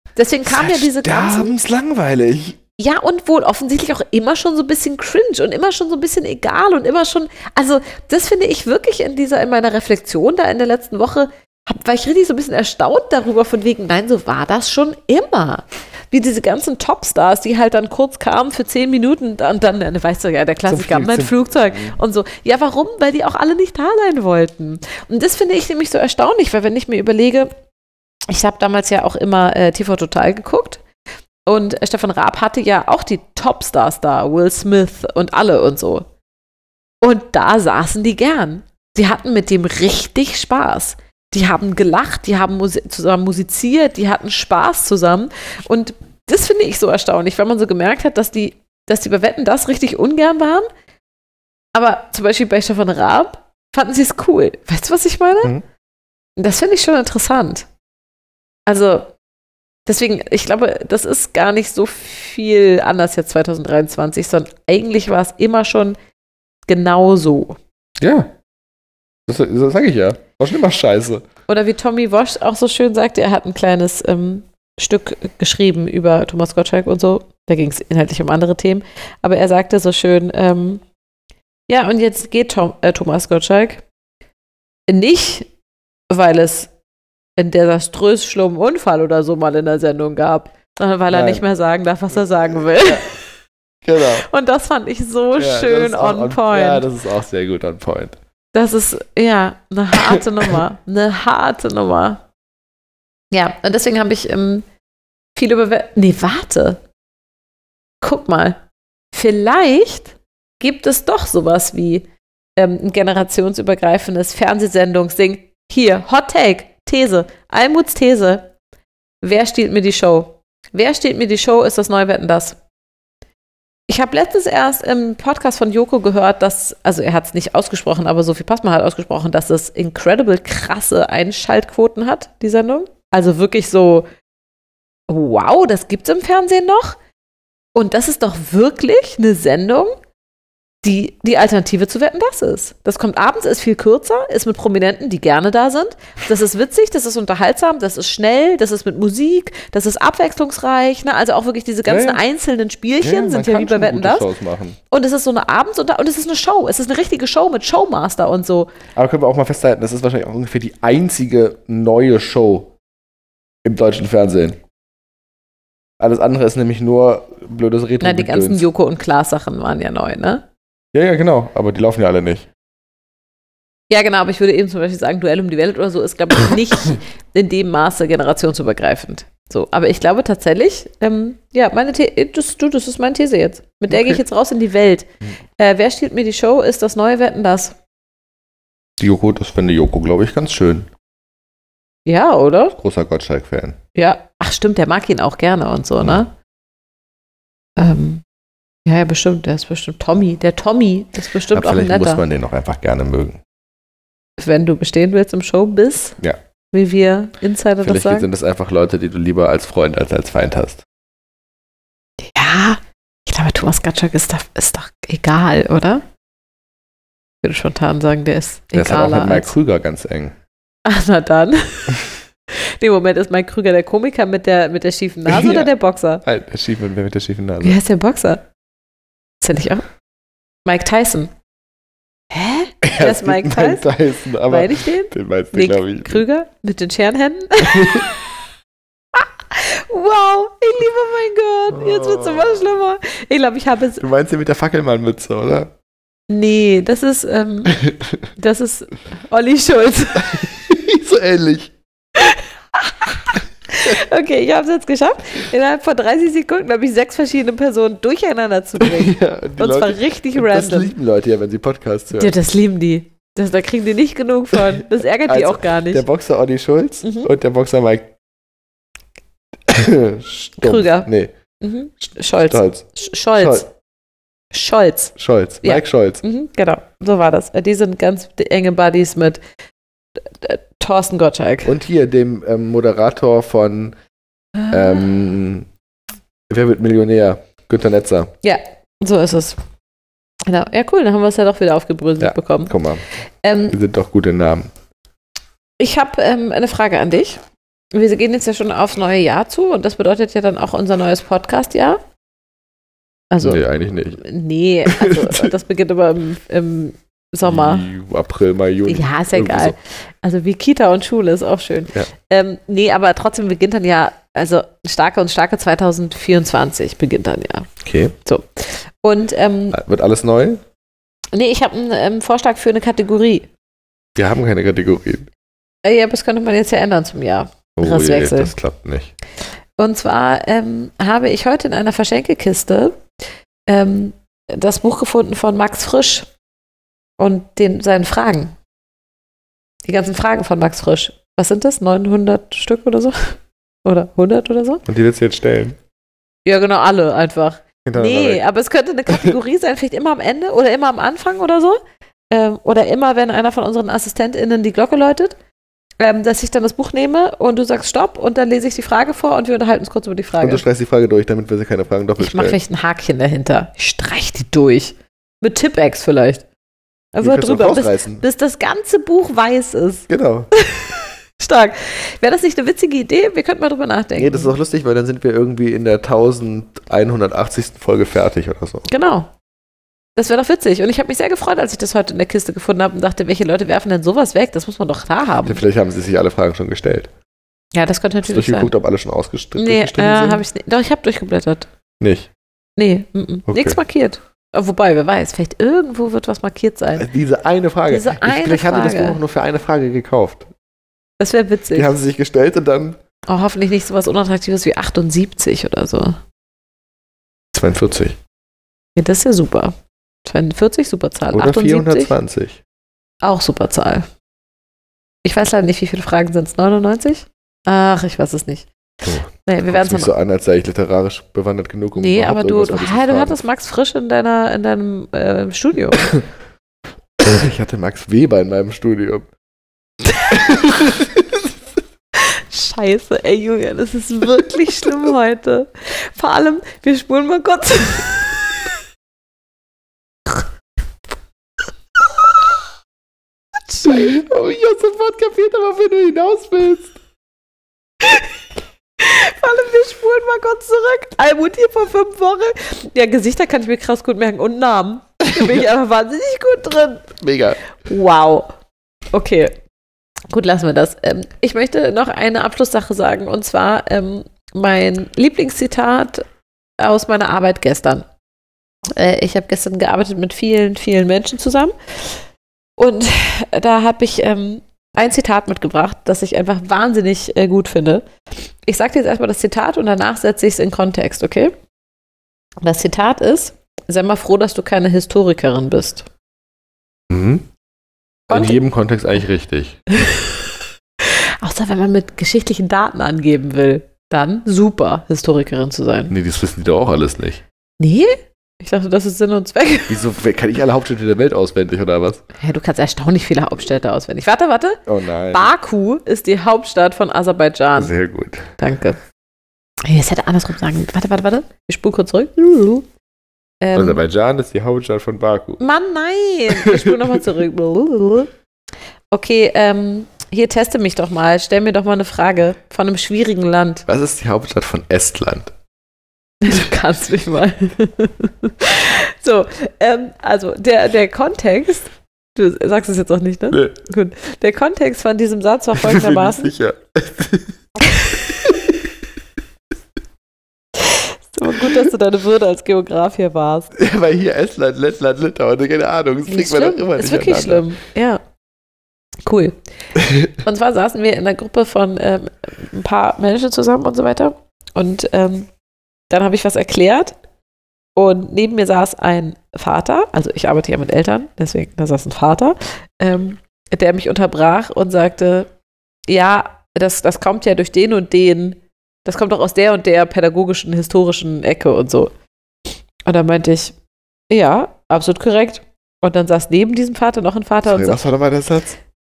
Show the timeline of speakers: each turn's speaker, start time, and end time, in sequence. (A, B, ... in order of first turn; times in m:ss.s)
0:00.2-0:01.5 A
0:00.4-0:02.6 B
0:02.8-0:27.5 A
0:20.7-0:22.0 B
0:28.3-0:30.8 A
0:31.4-0:36.1 A
0:37.0-0:50.7 A
0:51.7-0:55.5 A
0:56.4-0:57.7 A
0:58.7-0:59.1 A
0:59.8-1:06.0 A
1:06.7-1:07.6 A
1:08.0-1:08.3 B
1:09.3-1:11.2 B
1:11.5-1:20.8 A
1:21.7-1:23.8 A
1:24.9-1:25.5 A
1:26.1-1:26.7 A
1:27.4-1:33.1 A
1:31.1-1:31.4 B
1:32.6-1:33.1 B
1:33.8-1:34.3 B
1:34.0-1:36.8 A
1:35.4-1:38.2 B
1:38.5-1:42.2 A
1:39.9-1:40.6 B
1:43.3-1:44.6 A
1:45.3-1:46.8 A
1:48.0-1:48.6 A
1:49.1-1:58.5 A
1:59.2-2:02.6 A
2:03.9-2:14.1 A
2:15.1-2:17.0 A
2:17.7-2:20.0 A
2:20.8-2:34.3 A
2:31.8-2:32.2 B
2:33.0-2:34.8 B
2:34.9-2:38.7 A
2:39.0-2:42.7 B
2:43.6-2:44.6 B
2:46.0-2:48.7 B
2:48.0-2:50.4 A
2:50.9-2:52.5 B
2:53.9-3:07.8 A
3:03.9-3:04.2 B
3:09.0-3:10.9 B
3:12.0-3:12.8 A
3:12.8-3:13.8 B
3:13.9-3:16.3 A
3:17.8-3:18.2 A
3:18.8-3:22.2 A
3:21.5-3:23.4 B
3:24.4-3:26.2 A
3:26.7-3:28.3 A
3:27.8-3:30.8 B
3:32.2-3:36.0 A
3:37.4-3:39.5 A
3:38.7-3:40.4 B
3:40.8-3:46.2 A
3:45.3-3:45.7 B
3:46.2-3:47.8 B
3:47.6-3:48.4 A
3:49.4-3:49.8 A
3:50.6-3:51.3 A
3:52.3-3:53.8 A
3:52.8-3:56.2 B
3:54.5-3:58.2 A
3:57.7-3:58.0 B
3:59.1-4:04.0 A
4:01.7-4:02.7 B
4:04.0-4:05.7 B
4:06.3-4:07.8 A
4:07.7-4:08.1 B
4:08.3-4:10.4 A
4:10.2-4:11.7 B
4:12.2-4:20.9 A
4:18.8-4:22.4 B
4:22.1-4:26.0 A
4:24.7-4:28.1 B
4:27.0-4:27.3 A
4:29.7-4:31.3 B
4:30.6-4:31.1 A
4:31.6-4:33.7 A
4:32.1-4:32.8 B
4:33.4-4:33.6 B
4:34.5-4:39.4 A
4:35.2-4:36.2 B
4:40.2-4:41.7 A
4:41.6-4:44.0 B
4:44.6-4:45.0 A
4:44.7-4:45.7 B
4:46.5-4:48.3 B
4:48.4-4:49.6 A
4:50.5-4:52.7 A
4:52.2-4:53.0 B
4:53.4-4:53.8 A
4:53.7-4:54.7 B
4:55.8-4:57.4 A
4:57.9-5:02.0 A
5:03.3-5:03.6 A
5:03.4-5:04.2 B
5:04.2-5:07.8 A
5:04.8-5:05.5 B
5:07.4-5:09.7 B
5:08.8-5:19.8 A
5:17.8-5:18.1 B
5:19.7-5:20.6 B
5:21.3-5:23.5 A
5:24.2-5:25.3 B
5:25.8-5:28.5 A
5:27.8-5:29.1 B
5:29.8-5:33.0 A
5:33.7-5:36.3 A
5:37.2-5:38.5 A
5:39.8-5:44.8 A
5:44.8-5:45.8 B
5:46.4-5:51.8 A
5:47.8-5:48.4 B
5:52.3-5:55.3 A
5:56.0-6:00.6 A
6:00.4-6:02.6 B
6:02.2-6:06.4 A
6:07.1-6:14.5 A
6:07.2-6:08.2 B
6:10.1-6:10.5 B
6:14.2-6:18.8 B
6:18.9-6:19.3 A
6:20.2-6:25.6 A
6:25.4-6:27.1 B
6:27.7-6:28.7 A
6:28.2-6:30.4 B
6:29.6-6:31.7 A
6:32.0-6:32.3 B
6:32.8-6:37.1 A
6:33.5-6:33.8 B
6:37.0-6:40.5 B
6:37.9-6:39.2 A
6:41.2-6:41.9 A
6:41.7-6:43.0 B
6:43.3-6:46.2 A
6:47.5-6:48.2 B
6:49.0-6:49.7 A
6:50.2-6:52.1 A
6:51.3-6:52.6 B
6:53.2-6:54.1 A
6:55.2-6:58.7 A
6:59.0-7:03.4 B
6:59.4-7:00.1 A
7:02.0-7:06.1 A
7:07.2-7:09.3 B
7:10.1-7:10.3 A
7:10.3-7:11.4 B
7:12.1-7:18.4 A
7:23.7-7:24.4 A
7:23.8-7:27.0 B
7:29.0-7:37.2 A
7:35.3-7:35.7 B
7:37.2-7:37.6 B
7:37.8-7:38.5 A
7:39.1-7:39.5 A
7:40.3-7:46.2 A
7:46.8-7:48.0 A
7:49.0-7:52.2 A
7:52.8-7:58.0 A
7:58.6-8:01.5 A
8:02.6-8:06.1 A
8:07.1-8:07.5 B
8:08.3-8:09.8 B
8:08.3-8:08.6 A
8:11.0-8:16.1 A
8:16.1-8:17.4 B
8:17.8-8:20.0 A
8:19.9-8:22.2 B
8:22.4-8:27.9 A
8:24.9-8:25.5 B
8:27.8-8:28.5 B
8:28.6-8:29.0 A
8:29.8-8:32.9 A
8:33.6-8:34.0 A
8:33.7-8:35.6 B
8:35.6-8:38.3 A
8:36.5-8:37.2 B
8:39.1-8:43.8 A
8:43.9-8:45.5 B
8:46.4-8:56.5 A
8:53.5-8:53.8 B
8:55.8-8:57.5 B
8:57.8-8:58.2 A
9:00.8-9:03.7 A
9:03.7-9:07.7 B
9:06.3-9:08.2 A
9:09.2-9:09.6 A
9:10.3-9:15.5 A
9:16.1-9:17.2 A
9:18.0-9:25.5 A
9:26.1-9:32.1 A
9:33.0-9:33.7 A
9:34.3-9:38.0 A
9:37.6-9:38.8 B